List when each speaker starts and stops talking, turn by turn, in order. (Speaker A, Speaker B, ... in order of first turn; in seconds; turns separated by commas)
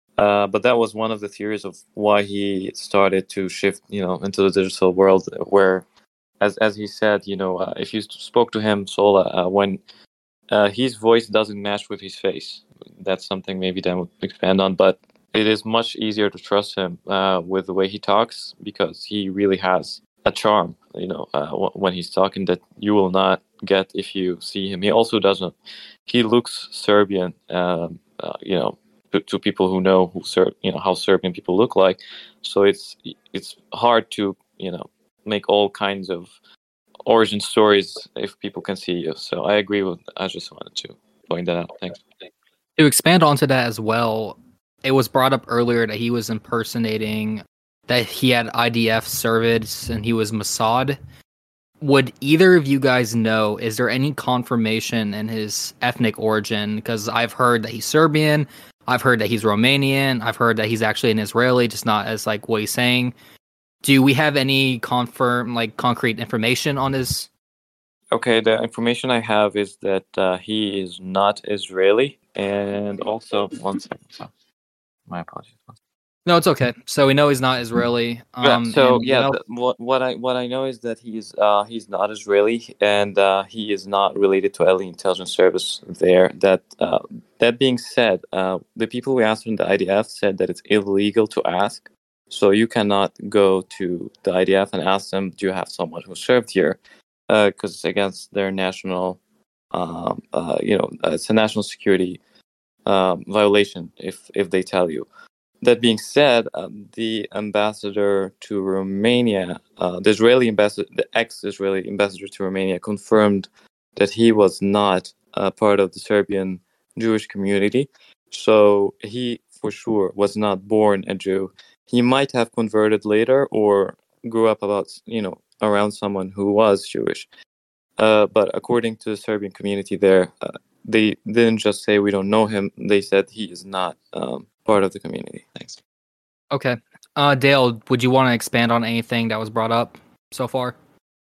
Speaker A: 0.2-5.8, Speaker A: 6.4-9.8, Speaker A: 10.5-25.5, Speaker A: 26.1-36.3, Speaker A: 37.0-42.0, Speaker B: 42.8-51.0, Speaker B: 51.8-63.1, Speaker B: 63.8-67.3, Speaker A: 68.1-74.3, Speaker A: 75.1-75.8, Speaker B: 76.3-79.4, Speaker A: 78.4-99.2, Speaker A: 99.7-102.2, Speaker A: 102.9-105.1, Speaker A: 105.6-127.3, Speaker A: 128.0-135.8, Speaker B: 136.5-140.8